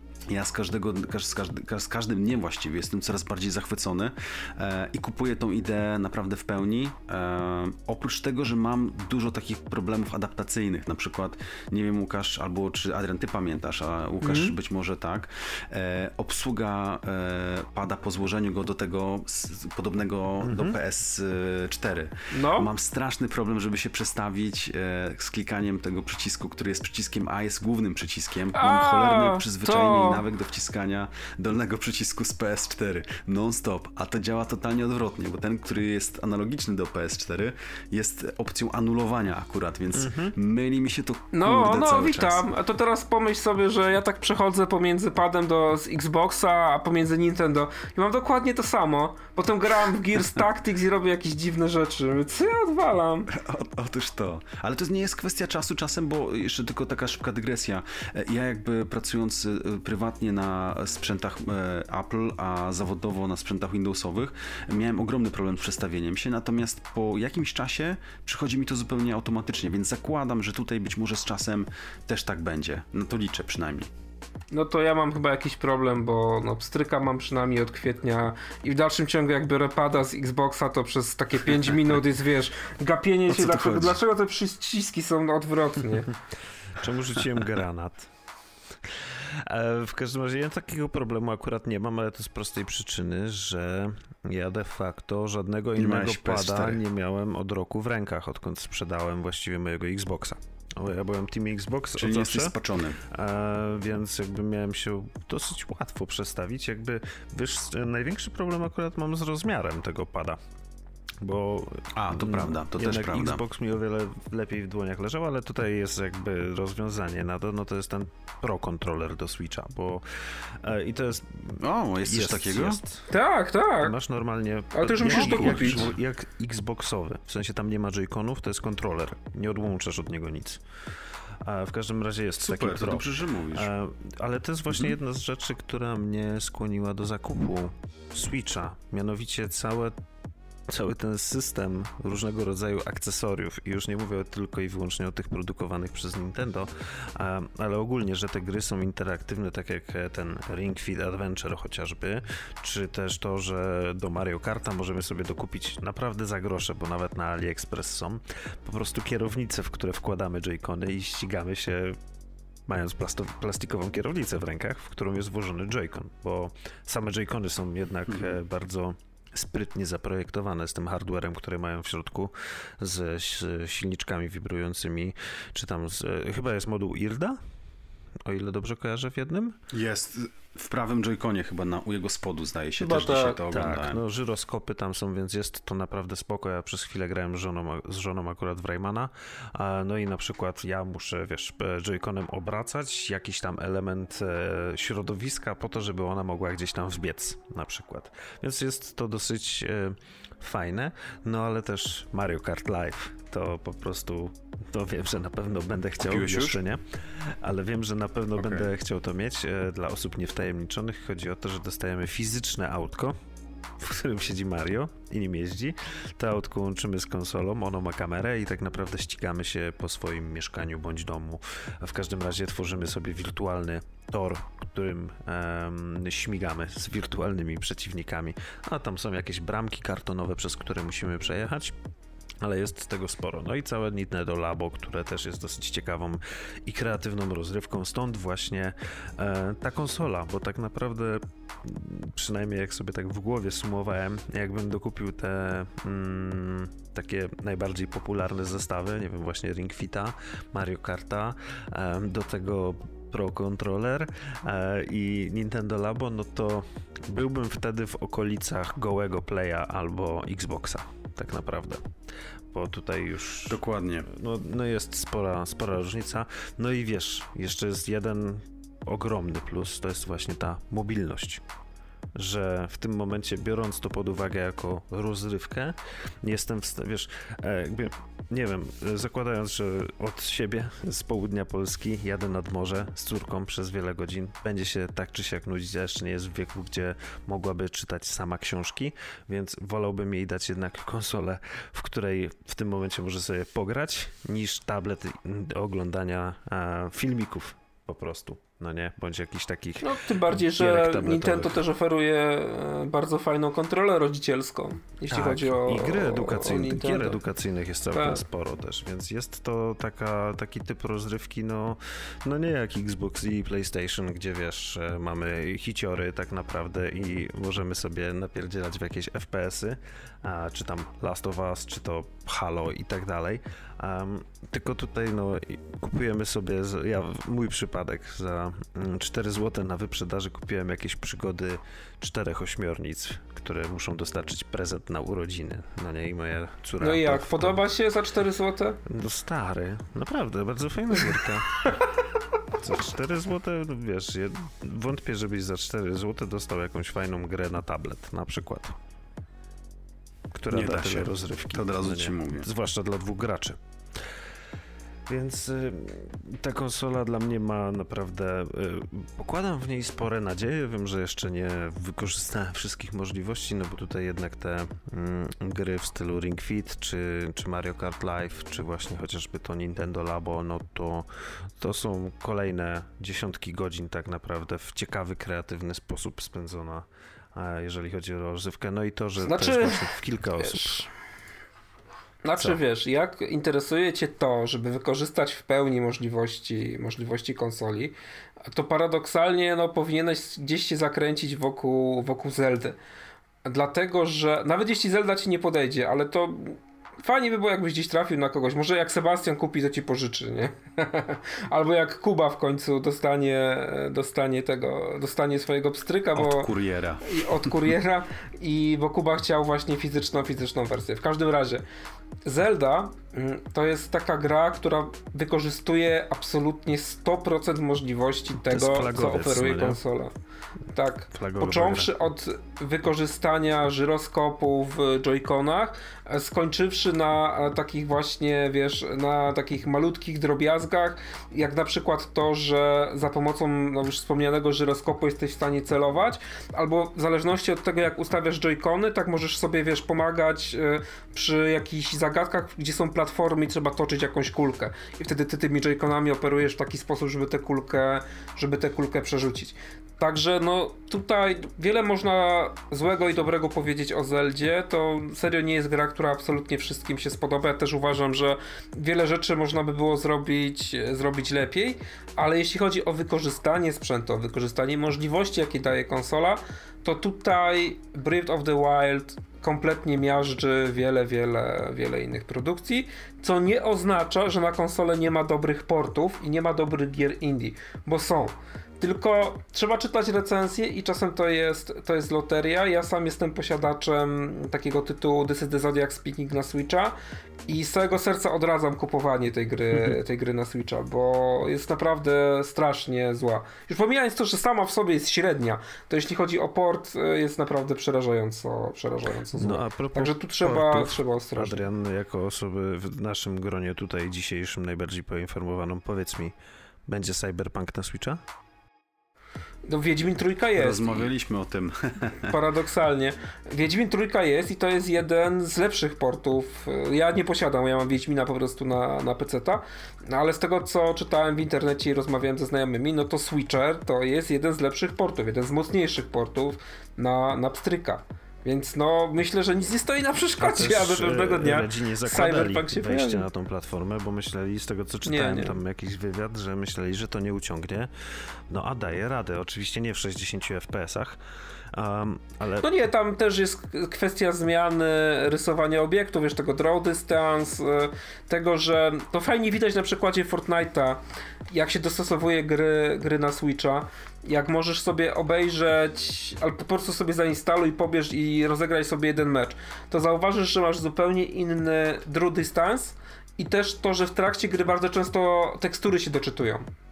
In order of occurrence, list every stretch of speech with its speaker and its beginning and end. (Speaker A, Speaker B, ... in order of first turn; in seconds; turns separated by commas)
Speaker A: 0.3-42.4, Speaker B: 14.2-14.5, Speaker C: 20.4-20.8, Speaker B: 22.3-22.7, Speaker B: 28.5-30.2, Speaker C: 39.9-40.4, Speaker B: 41.3-53.3, Speaker A: 53.3-73.9, Speaker B: 74.5-86.1, Speaker A: 83.3-84.0, Speaker C: 86.7-88.1, Speaker C: 89.4-110.4, Speaker A: 95.8-96.8, Speaker A: 102.0-103.0, Speaker C: 111.2-120.0, Speaker A: 111.9-113.4, Speaker C: 120.6-123.1, Speaker A: 121.6-122.8, Speaker B: 123.1-123.9, Speaker C: 123.8-130.6, Speaker B: 124.7-125.8, Speaker A: 125.0-125.9, Speaker C: 131.4-139.9, Speaker A: 132.4-133.7, Speaker C: 140.7-162.0, Speaker C: 162.7-177.4, Speaker C: 178.2-179.6, Speaker A: 179.7-184.0, Speaker B: 182.8-183.4, Speaker C: 183.5-213.2, Speaker A: 206.0-206.6, Speaker A: 208.4-208.7, Speaker C: 213.8-231.7, Speaker C: 232.4-261.8, Speaker C: 262.5-271.4, Speaker A: 263.5-264.1, Speaker C: 272.1-301.6, Speaker B: 299.8-307.2, Speaker C: 305.1-337.6, Speaker B: 307.9-308.2, Speaker B: 336.8-338.8, Speaker C: 338.9-341.7, Speaker C: 342.6-348.7, Speaker C: 350.3-353.6, Speaker A: 350.5-352.5, Speaker C: 355.1-371.1, Speaker C: 371.6-380.9, Speaker B: 379.2-380.9, Speaker B: 382.2-392.8, Speaker B: 393.4-406.5, Speaker A: 406.1-407.7, Speaker B: 407.0-411.6, Speaker B: 412.2-420.1, Speaker C: 418.4-419.8, Speaker B: 420.7-486.9, Speaker C: 421.1-421.9, Speaker B: 487.5-501.6, Speaker C: 499.4-506.3, Speaker C: 506.9-508.2, Speaker B: 509.6-511.1, Speaker A: 510.5-512.4, Speaker B: 512.2-533.2, Speaker C: 530.4-537.9, Speaker B: 535.0-535.6, Speaker C: 538.5-541.2, Speaker C: 541.7-542.7, Speaker B: 542.6-566.7